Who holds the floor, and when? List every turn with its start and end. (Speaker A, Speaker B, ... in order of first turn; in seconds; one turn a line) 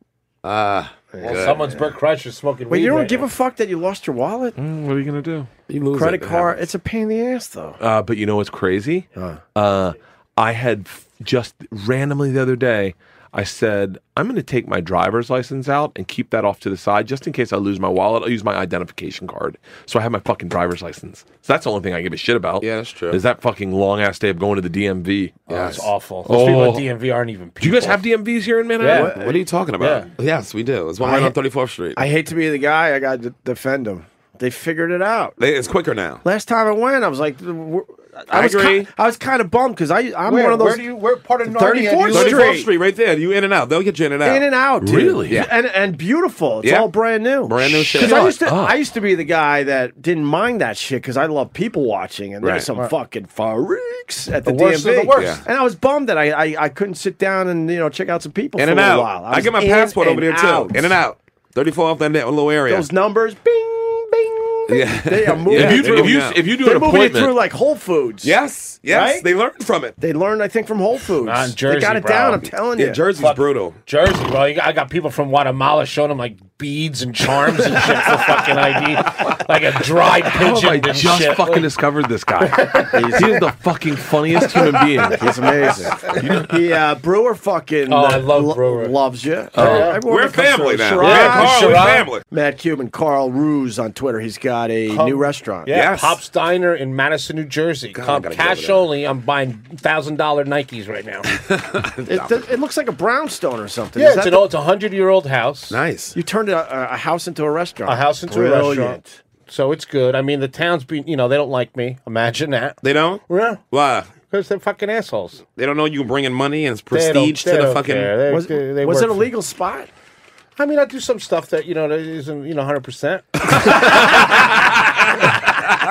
Speaker A: 0.4-1.6
Speaker B: 1.1-1.8
Speaker C: 1.2-3.3
Speaker B: 2.7-4.6
Speaker D: 4.6-5.5
Speaker A: 5.7-6.6
Speaker B: 5.9-7.8
Speaker D: 7.8-25.4
Speaker A: 22.6-23.2
Speaker A: 25.5-25.9
Speaker C: 25.5-28.0
Speaker D: 26.2-26.9
Speaker D: 27.6-29.1
Speaker C: 28.8-29.1
Speaker B: 28.8-29.4
Speaker A: 28.9-32.0
Speaker C: 29.8-30.1
Speaker B: 31.0-31.4
Speaker B: 31.9-35.4
Speaker A: 35.4-36.2
Speaker B: 36.2-40.9
Speaker A: 38.3-38.9
Speaker C: 40.2-42.6
Speaker B: 41.4-42.7
Speaker A: 42.1-44.4
Speaker B: 44.2-61.0
Speaker D: 44.8-45.4
Speaker A: 46.6-46.9
Speaker A: 47.4-48.3
Speaker D: 47.9-48.8
Speaker A: 52.4-52.7
Speaker C: 54.4-55.4
Speaker A: 55.1-55.4
Speaker A: 58.6-62.9
Speaker B: 62.7-69.3
Speaker A: 64.7-66.4
Speaker D: 65.5-67.3
Speaker A: 68.2-70.0
Speaker B: 70.0-73.0
Speaker C: 71.2-72.5
Speaker A: 72.8-73.8
Speaker C: 73.2-81.7
Speaker D: 80.2-85.2
Speaker C: 82.4-83.2
Speaker B: 82.9-83.4
Speaker B: 85.1-95.7
Speaker D: 86.1-86.5
Speaker C: 87.9-89.0
Speaker D: 89.5-89.9
Speaker C: 89.6-90.0
Speaker A: 90.0-92.2
Speaker C: 91.0-92.1
Speaker C: 94.9-101.3
Speaker A: 95.7-96.2
Speaker A: 97.9-98.9
Speaker A: 101.5-102.4
Speaker B: 102.0-104.5
Speaker C: 104.0-105.8
Speaker A: 105.7-106.2
Speaker B: 106.1-109.2
Speaker C: 107.8-113.6
Speaker A: 112.8-114.1
Speaker C: 114.2-115.4
Speaker A: 115.5-118.1
Speaker C: 116.9-119.3
Speaker B: 118.3-119.9
Speaker C: 120.6-123.9